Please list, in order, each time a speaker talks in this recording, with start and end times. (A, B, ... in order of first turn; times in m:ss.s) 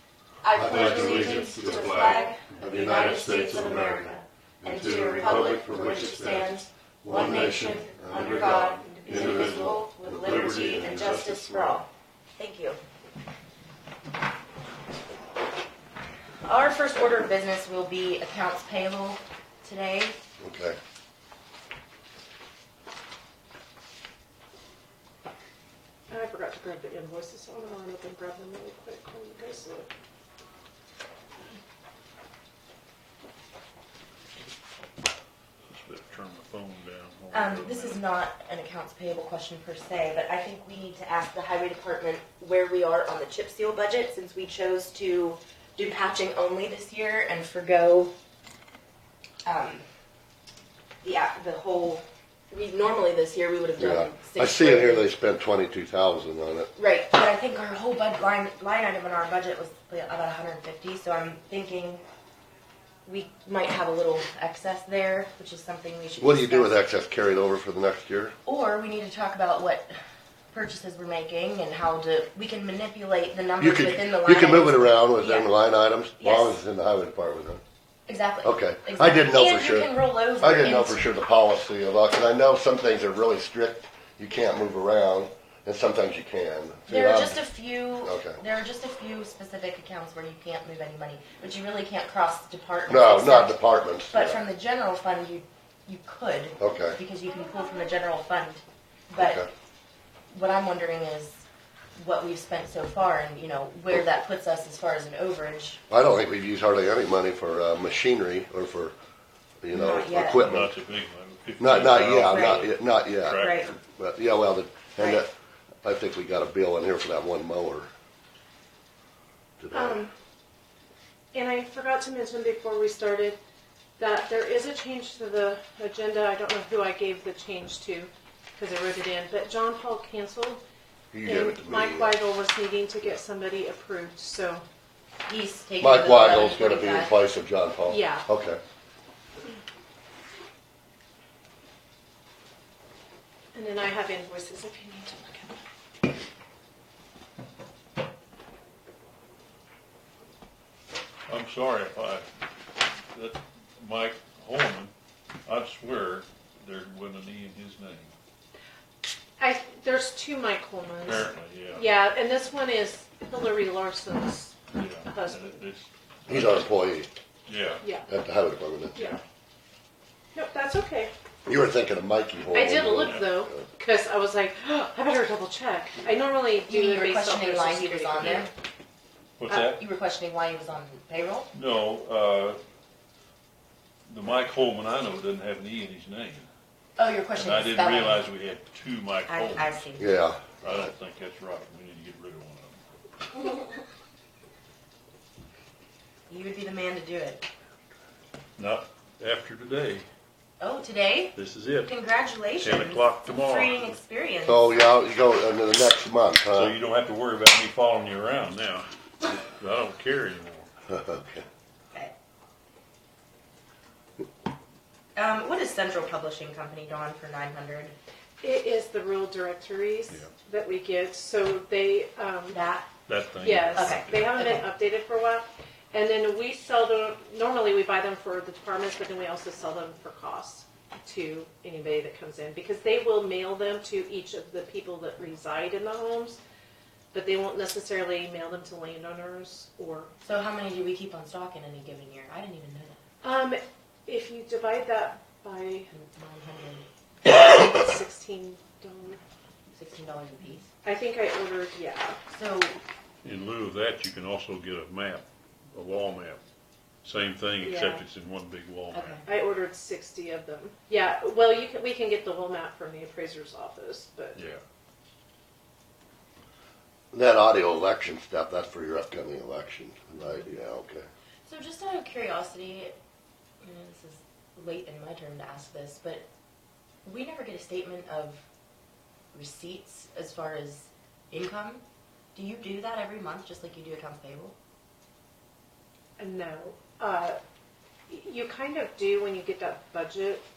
0:00.4-0:12.8 A
0:00.5-0:04.1 B
0:00.7-0:01.2 C
0:00.9-0:02.3 D
0:04.6-0:11.2 B
0:05.3-0:06.5 C
0:08.1-0:11.8 C
0:16.4-0:20.1 A
0:20.4-0:20.8 B
0:26.1-0:29.9 D
0:35.7-0:38.0 C
0:37.3-0:48.1 A
0:49.4-0:49.8 A
0:51.0-0:55.1 A
0:53.8-0:56.7 B
0:56.8-1:02.0 A
1:03.0-1:06.8 A
1:06.2-1:08.4 B
1:08.4-1:09.9 A
1:10.5-1:15.5 A
1:13.6-1:17.6 B
1:16.2-1:16.6 A
1:18.1-1:21.0 A
1:18.4-1:27.4 B
1:26.9-1:33.6 A
1:28.0-1:28.4 B
1:32.9-1:34.4 B
1:34.1-1:39.5 A
1:36.6-1:37.0 B
1:39.2-1:39.5 B
1:40.3-1:41.4 A
1:42.0-1:45.8 A
1:45.9-1:48.9 B
1:49.6-1:50.7 B
1:49.7-1:50.6 A
1:50.4-1:53.8 C
1:51.6-1:55.3 B
1:52.1-1:52.7 A
1:53.2-1:53.7 A
1:55.0-1:55.2 A
1:55.8-1:57.9 B
1:59.6-2:00.0 B
1:59.7-2:00.1 D
2:01.3-2:03.4 D
2:04.0-2:10.6 D
2:11.1-2:12.2 B
2:11.2-2:14.6 D
2:15.2-2:17.2 A
2:15.8-2:18.6 B
2:17.9-2:18.2 D
2:23.5-2:25.6 D
2:31.3-2:32.2 C
2:33.1-2:34.9 C
2:35.5-2:38.1 C
2:39.4-2:45.6 D
2:41.0-2:41.8 C
2:44.8-2:46.7 C
2:46.3-2:47.1 B
2:47.5-2:47.8 C
2:47.8-2:48.1 D
2:48.1-2:49.2 B
2:49.0-2:49.2 D
2:50.3-2:51.1 D
2:51.5-2:53.6 B
2:52.5-2:58.5 D
2:52.9-2:53.3 C
2:56.7-2:58.5 A
2:59.4-2:59.8 C
2:59.5-3:01.5 A
3:01.5-3:02.6 C
3:04.1-3:06.5 C
3:07.0-3:08.2 A
3:07.3-3:09.8 C
3:09.3-3:10.1 A
3:10.0-3:10.8 B
3:10.6-3:12.8 C
3:16.3-3:17.4 A
3:18.6-3:20.0 C
3:20.6-3:24.7 A
3:21.4-3:21.9 C
3:22.6-3:24.0 C
3:24.5-3:26.8 B
3:26.5-3:30.7 C
3:30.9-3:31.5 B
3:35.2-3:38.0 A
3:38.4-3:42.6 D
3:42.5-3:42.9 A
3:43.1-3:44.4 C
3:43.4-3:56.4 D
3:43.4-3:44.7 A
3:57.1-4:00.1 D
4:00.2-4:03.0 A
4:03.2-4:05.9 D
4:05.9-4:06.9 A
4:07.2-4:09.2 D
4:09.7-4:10.7 A
4:10.8-4:12.2 D
4:12.3-4:12.8 A
4:13.2-4:16.4 C
4:17.0-4:19.2 C
4:17.6-4:18.0 D
4:18.9-4:19.2 A
4:19.2-4:24.4 D
4:24.4-4:24.6 C
4:27.1-4:31.1 B
4:31.5-4:33.0 A
4:33.6-4:36.2 A
4:37.0-4:38.4 A
4:39.3-4:41.8 A
4:42.3-4:44.6 A
4:46.2-4:47.4 D
4:48.1-4:50.4 D